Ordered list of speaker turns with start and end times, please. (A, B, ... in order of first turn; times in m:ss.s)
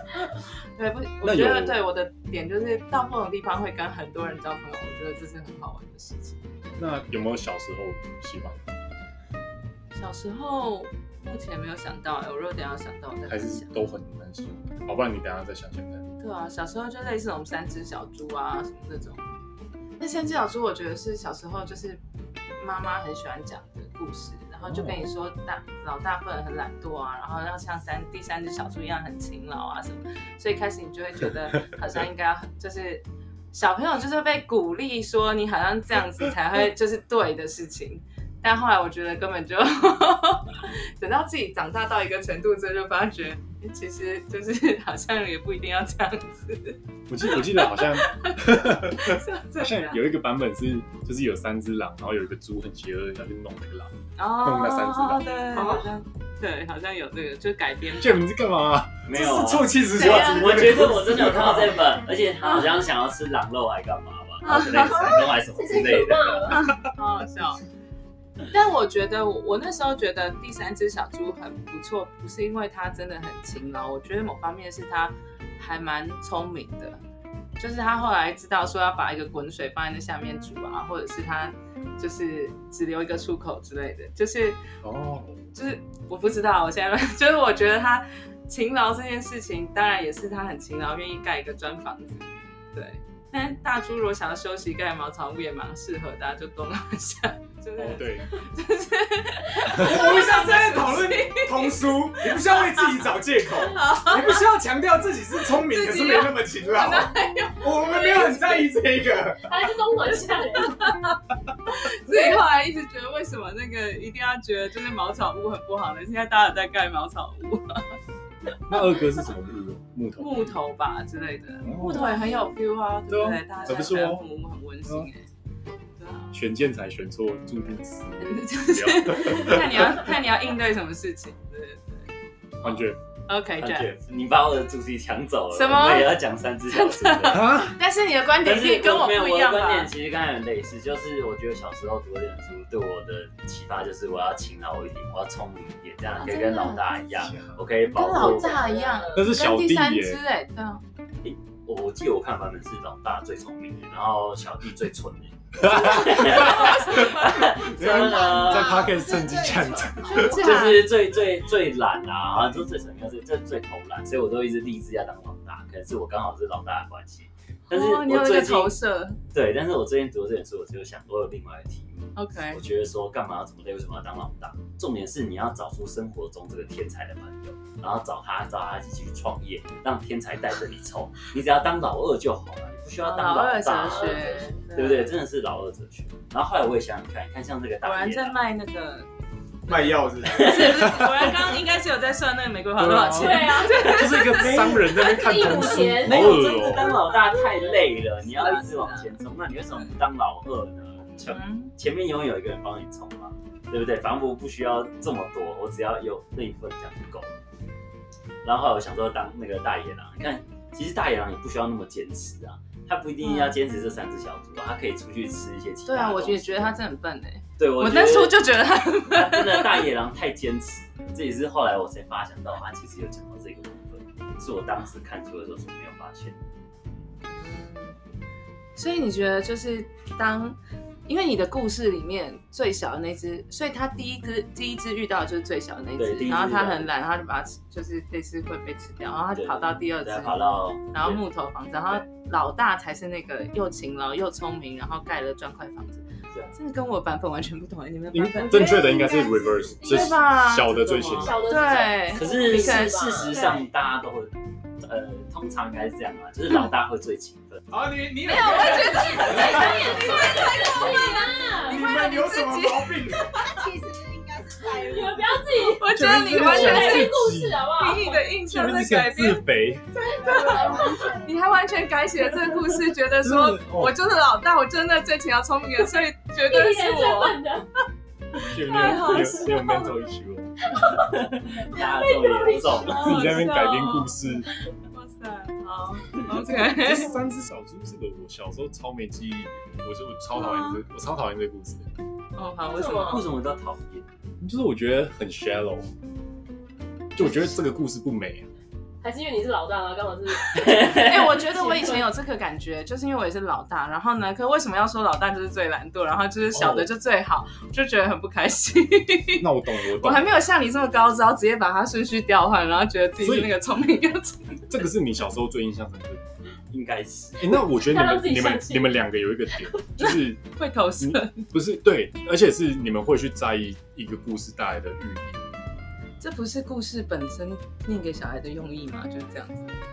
0:00.8-0:06.4 A
0:01.2-0:01.8 B
0:06.8-0:08.6 B
0:09.9-0:13.8 A
0:13.3-0:16.0 B
0:16.2-0:19.2 A
0:20.0-0:22.0 A
0:22.6-0:50.1 A
0:24.6-0:25.1 B
0:47.1-0:55.2 B
0:54.2-0:58.3 A
0:55.6-0:55.9 C
0:58.0-0:59.0 B
0:59.1-1:06.6 D
0:59.1-1:01.8 C
1:00.0-1:00.6 A
1:04.4-1:05.1 A
1:04.9-1:05.3 E
1:04.9-1:06.6 F
1:06.5-1:07.6 A
1:08.5-1:17.0 A
1:17.6-1:24.6 A
1:24.8-1:25.5 B
1:25.5-1:42.8 A
1:37.8-1:38.3 B
1:39.7-1:49.5 C
1:43.6-1:44.4 A
1:45.4-1:48.3 A
1:47.9-1:48.5 F
1:49.5-1:50.9 F
1:50.2-1:57.9 A
1:52.1-1:52.4 F
1:58.7-2:00.5 B
2:00.2-2:05.3 A
2:01.6-2:02.1 B
2:03.1-2:04.2 B
2:06.0-2:06.3 A
2:06.3-2:10.2 B
2:08.2-2:12.1 A
2:12.6-2:13.0 B
2:12.6-2:13.9 A
2:13.6-2:17.5 D
2:15.5-2:19.9 A
2:17.3-2:17.8 B
2:18.4-2:28.6 D
2:26.2-2:26.9 A
2:27.2-2:27.6 B
2:27.9-2:30.8 A
2:28.0-2:29.3 F
2:29.1-2:30.2 B
2:31.2-2:38.9 D
2:35.6-2:40.4 B
2:36.4-2:37.4 A
2:38.0-2:40.6 E
2:40.1-2:40.9 A
2:40.2-2:48.8 D
2:47.7-2:49.2 A
2:49.3-3:08.4 D
2:52.2-2:52.6 A
3:03.0-3:05.2 A
3:03.8-3:04.6 F
3:07.8-3:09.1 A
3:09.7-3:11.0 C
3:09.7-3:14.6 A
3:12.8-3:17.0 B
3:13.1-3:17.9 F
3:14.3-3:27.4 D
3:18.3-3:19.1 A
3:21.1-3:21.7 A
3:28.4-3:36.8 D
3:33.2-3:33.6 A
3:35.9-3:39.9 A
3:37.6-3:38.4 D
3:39.1-3:46.4 D
3:47.3-3:48.0 A
3:48.8-4:00.4 A
3:56.0-3:56.9 D
3:59.3-4:01.2 D
4:00.9-4:08.9 A
4:08.1-4:11.4 B
4:08.5-4:09.8 E
4:09.8-4:13.6 F
4:09.8-4:13.6 A
4:12.1-4:17.6 D
4:17.7-4:20.2 C
4:18.2-4:23.5 A
4:18.4-4:21.0 D
4:18.6-4:21.9 F
4:21.6-4:23.4 C
4:23.3-4:25.7 E
4:24.8-4:28.4 F
4:25.7-4:27.2 A
4:25.9-4:27.7 B
4:27.8-4:29.4 A
4:28.5-4:29.9 B
4:29.9-4:31.4 E
4:30.2-4:37.4 A
4:30.3-4:31.1 F
4:33.2-4:34.0 B
4:36.4-4:37.7 F
4:38.4-4:39.9 A
4:38.5-4:40.6 B
4:39.0-4:39.2 F
4:40.7-4:41.1 F
4:41.0-4:43.4 D
4:41.6-4:43.3 F
4:42.8-4:44.2 A
4:43.0-4:44.5 B
4:44.9-4:47.2 A
4:46.3-4:51.9 B
4:50.4-4:50.8 A
4:52.4-4:53.3 A
4:52.7-4:53.2 F
4:52.9-4:54.1 D
4:54.4-4:55.9 B
4:57.1-4:58.5 B
4:59.0-5:02.1 F
5:00.5-5:01.4 D
5:01.0-5:14.6 A
5:06.5-5:06.9 B
5:09.4-5:10.4 B
5:13.2-5:13.5 B
5:14.7-5:16.4 B
5:16.7-5:17.4 D
5:17.4-5:20.4 B
5:17.8-5:19.0 F
5:20.0-5:21.5 A
5:21.0-5:25.4 B
5:26.2-5:29.7 A